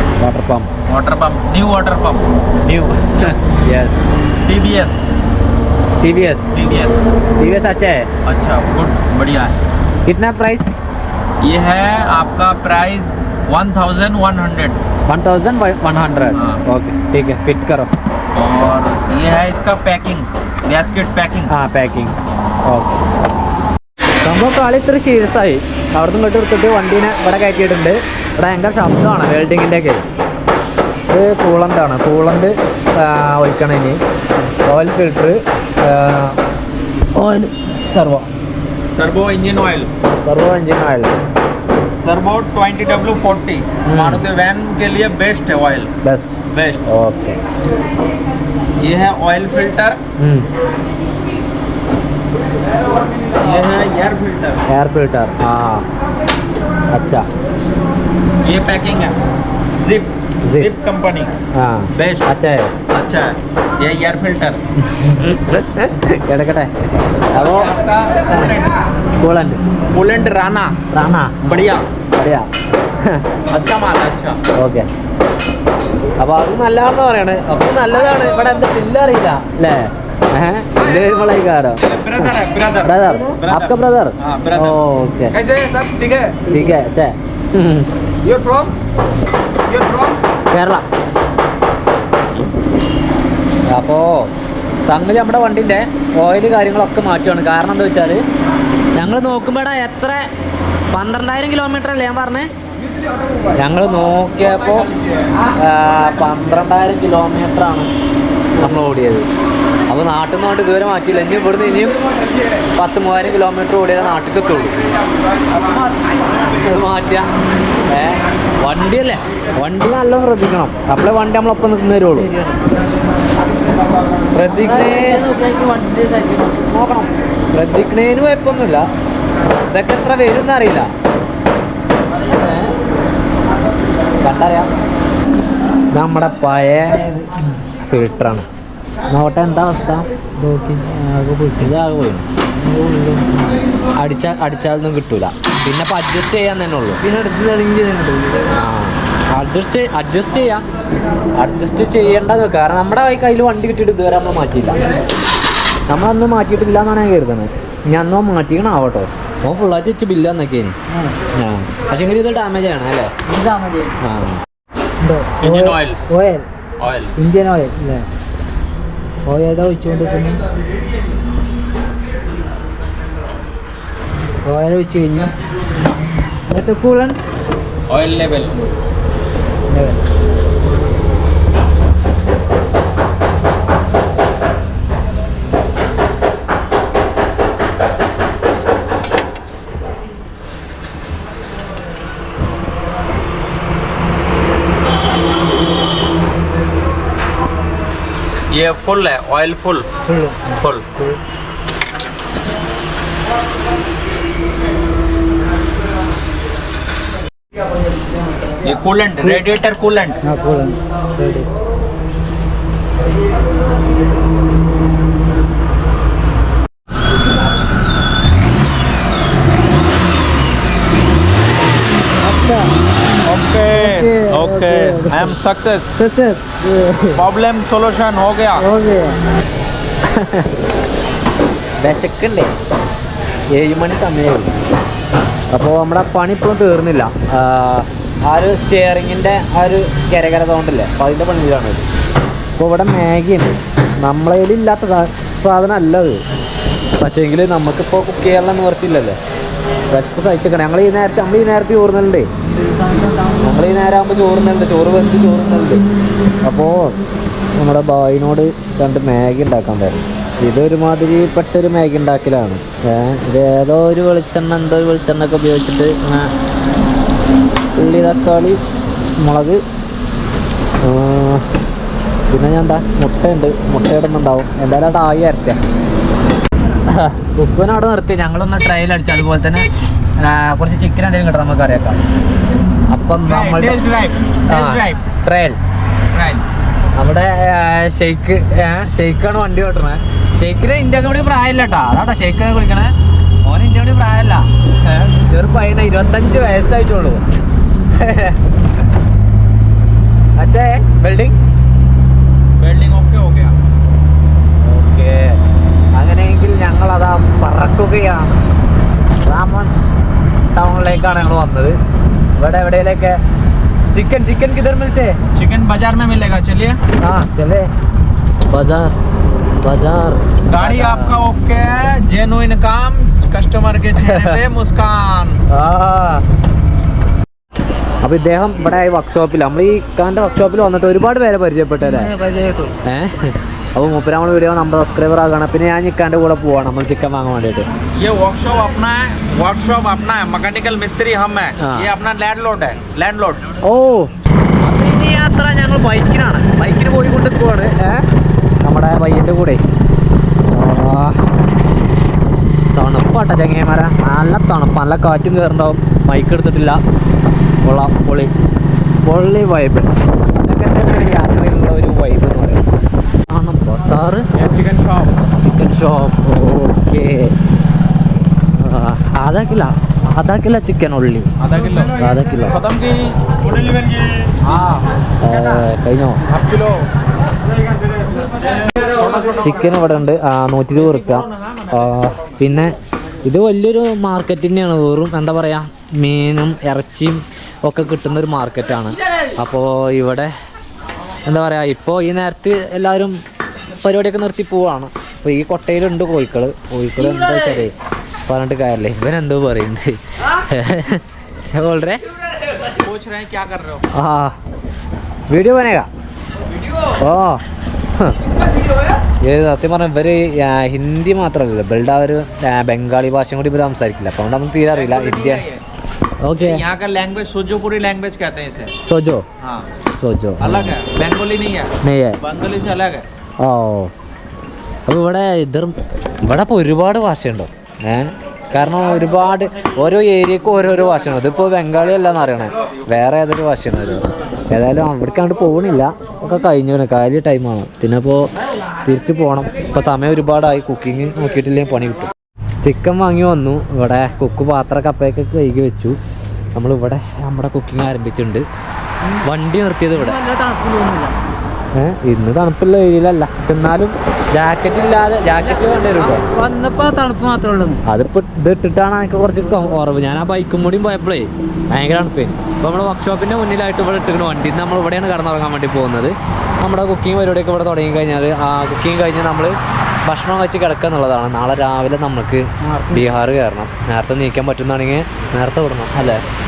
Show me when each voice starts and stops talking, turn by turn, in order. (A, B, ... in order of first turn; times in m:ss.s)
0:00.2-0:00.7 A
0:00.8-0:02.2 B
0:02.6-0:04.0 A
0:04.4-0:05.1 B
0:06.0-0:06.6 A
0:06.5-0:07.0 B
0:07.4-0:08.1 A
0:08.2-0:09.6 B
0:10.0-0:10.8 A
0:11.4-0:14.8 B
0:15.1-0:17.9 A
0:16.3-0:16.6 B
0:18.3-0:21.5 B
0:21.5-0:22.2 A
0:22.7-0:23.0 A
0:24.2-0:30.0 A
0:31.1-0:34.0 A
0:34.7-0:36.4 A
0:37.2-0:38.3 A
0:38.9-0:39.9 B
0:40.2-0:41.2 A
0:42.0-0:45.9 B
0:43.8-0:44.2 A
0:46.0-0:47.4 A
0:46.5-0:46.8 B
0:48.8-0:50.0 B
0:50.2-0:50.5 A
0:53.4-0:54.6 B
0:54.7-0:55.8 A
0:56.9-0:57.2 A
0:58.4-0:59.2 B
0:59.8-1:01.3 B
1:01.5-1:02.7 A
1:01.9-1:02.3 B
1:02.9-1:04.6 B
1:04.8-1:06.7 A
1:07.3-1:07.7 A
1:07.3-1:08.7 B
1:09.2-1:09.6 A
1:09.9-1:10.8 B
1:10.9-1:11.6 A
1:11.4-1:11.9 B
1:12.1-1:12.5 A
1:13.5-1:14.4 B
1:14.6-1:14.9 A
1:16.2-1:25.3 A
1:21.8-1:24.8 B
1:25.3-1:26.4 B
1:26.5-1:27.9 A
1:28.2-1:28.7 B
1:29.6-1:30.2 B
1:30.5-1:30.8 A
1:33.7-1:34.3 A
1:34.8-1:38.2 A
1:38.9-1:40.3 A
1:40.9-1:42.5 A
1:43.6-1:44.9 A
1:45.6-1:47.9 A
1:48.6-1:49.3 A
1:49.9-1:52.0 A
1:52.8-1:54.7 A
1:56.4-1:57.2 A
1:57.9-2:02.3 A
2:02.1-2:02.6 C
2:04.3-2:05.3 A
2:04.5-2:07.1 C
2:07.5-2:08.8 A
2:09.5-2:10.9 A
2:12.3-2:12.7 A
2:14.2-2:14.7 A
2:15.9-2:17.1 A
2:16.9-2:17.6 C
2:17.8-2:18.4 A
2:19.1-2:20.1 A
2:20.4-2:21.7 C
2:21.6-2:22.3 A
2:22.5-2:23.6 C
2:24.0-2:27.0 A
2:27.0-2:28.6 C
2:28.5-2:30.6 A
2:31.4-2:34.9 A
2:35.9-2:40.8 A
2:40.9-2:41.2 C
2:41.4-2:43.1 A
2:43.3-2:43.9 C
2:44.0-2:44.4 A
2:45.0-2:46.5 C
2:45.4-2:46.0 B
2:46.8-2:47.1 B
2:47.2-2:48.1 C
2:49.2-2:50.4 C
2:54.4-2:55.3 C
2:56.5-2:57.2 C
2:57.9-2:58.6 B
2:59.7-3:00.0 C
3:18.5-3:19.9 B
3:20.1-3:21.2 C
3:20.5-3:20.8 B
3:28.6-3:30.2 B
3:30.2-3:31.5 C
3:42.2-3:42.7 C
3:43.2-3:45.9 B
3:43.7-3:45.3 C
3:46.0-3:47.2 C
3:47.1-3:48.7 B
3:48.6-3:49.2 C
3:50.1-3:50.5 A
3:51.8-3:52.5 A
3:53.5-3:54.5 A
3:55.5-4:01.8 A
4:02.6-4:06.2 A
4:07.0-4:09.2 A
4:09.9-4:12.3 A
4:12.6-4:13.4 C
4:13.4-4:15.8 A
4:16.4-4:17.0 A
4:17.6-4:26.3 A
4:27.8-4:28.6 A
4:29.2-4:29.6 A
4:30.8-4:31.4 A
4:32.3-4:35.6 A
4:36.9-4:39.7 A
4:40.2-4:42.0 A
4:42.9-4:43.8 A
4:43.2-4:45.0 B
4:44.5-4:45.6 A
4:46.1-4:46.4 B
4:47.0-4:52.9 A
4:53.4-4:57.2 A
4:57.9-4:58.4 A
5:00.4-5:01.3 A
5:02.6-5:03.6 B
5:04.6-5:05.4 A
5:05.9-5:08.4 A
5:09.2-5:09.9 A
5:10.5-5:11.8 A
5:12.4-5:13.2 A
5:13.9-5:15.2 A
5:15.3-5:16.8 B
5:17.0-5:17.7 A
5:18.5-5:19.0 A
5:19.6-5:21.1 A
5:20.5-5:25.4 B
5:24.1-5:24.3 A
5:25.5-5:26.2 A
5:28.0-5:32.1 A
5:31.8-5:32.8 C
5:32.8-5:37.7 A
5:37.9-5:43.5 B
5:41.6-5:41.9 A
5:43.6-5:44.1 A
5:44.6-5:48.0 A
5:48.6-5:49.6 A
5:50.5-5:51.3 A
5:52.7-5:56.8 A
5:57.6-5:58.3 A
5:59.0-6:02.7 A
6:03.3-6:04.2 A
6:04.4-6:05.2 B
6:05.4-6:07.3 A
6:08.5-6:11.3 A
6:11.4-6:11.9 B
6:12.0-6:12.6 A
6:12.5-6:14.8 B
6:15.2-6:16.2 A
6:16.2-6:16.9 B
6:18.8-6:19.6 B
6:19.4-6:30.3 A
6:20.8-6:21.9 B
6:31.2-6:33.2 A
6:33.8-6:37.7 A
6:38.3-6:41.0 A
6:41.5-6:42.0 A
6:42.8-6:43.9 B
6:43.9-6:44.3 A
6:45.3-6:45.9 A
6:47.0-6:47.4 A
6:49.2-6:55.4 A
6:54.7-6:55.6 B
6:56.2-6:56.6 A
6:56.3-6:58.7 B
6:58.8-6:59.2 A
6:59.4-6:59.7 B
7:00.0-7:00.8 A
7:00.4-7:03.0 B
7:01.8-7:02.2 A
7:03.4-7:03.9 A
7:04.9-7:18.3 A
7:18.8-7:22.1 A
7:22.6-7:26.0 A
7:26.5-7:28.4 A
7:29.2-7:30.2 A
7:29.9-7:31.2 C
7:31.7-7:36.2 A
7:35.4-7:37.8 C
7:37.8-7:56.2 A
7:52.6-7:53.2 C